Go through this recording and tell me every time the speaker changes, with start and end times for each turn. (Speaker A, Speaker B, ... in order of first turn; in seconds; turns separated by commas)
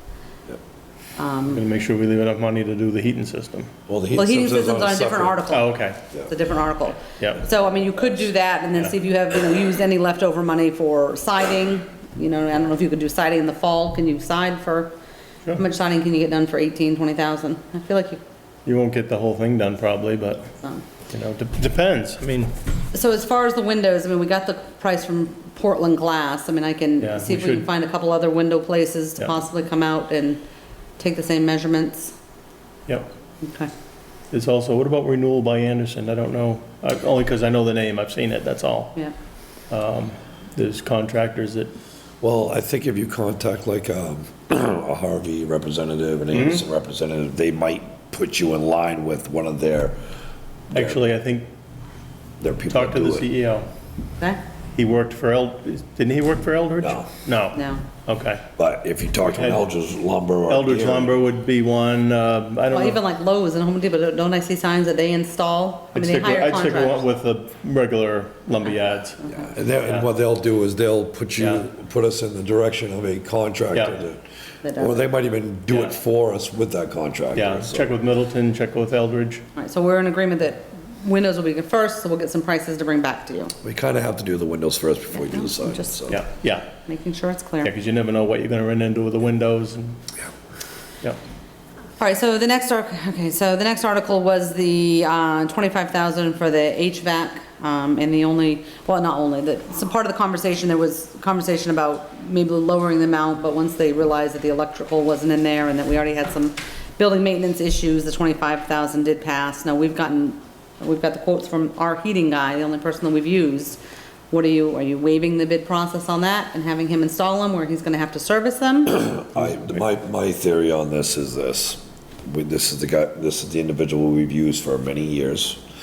Speaker A: 1.2-1.6, Speaker B: 1.5-3.7, Speaker C: 3.9-5.4, Speaker A: 4.1-14.9, Speaker B: 5.5-6.0, Speaker B: 7.2-7.4, Speaker A: 15.5-18.2, Speaker B: 18.6-20.5, Speaker B: 21.1-22.5, Speaker A: 22.9-30.4, Speaker B: 27.0-27.6, Speaker A: 31.0-32.1, Speaker A: 33.4-33.7, Speaker B: 34.3-38.9, Speaker B: 39.7-41.7, Speaker C: 42.2-50.0, Speaker B: 46.3-46.6, Speaker C: 50.7-51.0, Speaker B: 50.7-51.5, Speaker C: 52.4-53.3, Speaker B: 52.7-53.7, Speaker B: 54.7-58.4, Speaker C: 56.8-57.1, Speaker A: 57.5-57.9, Speaker C: 58.6-61.1, Speaker B: 59.3-59.6, Speaker B: 60.5-63.0, Speaker A: 62.7-67.0, Speaker B: 65.9-69.3, Speaker A: 69.2-69.5, Speaker C: 69.3-74.2, Speaker B: 71.4-71.6, Speaker B: 73.7-74.0, Speaker A: 74.6-75.1, Speaker C: 74.7-77.9, Speaker B: 77.3-79.4, Speaker A: 79.5-83.5, Speaker C: 83.6-86.2, Speaker A: 85.2-86.2, Speaker B: 86.1-86.7, Speaker A: 86.8-87.7, Speaker B: 87.6-90.0, Speaker A: 92.0-113.8, Speaker A: 114.3-119.1, Speaker C: 118.9-125.6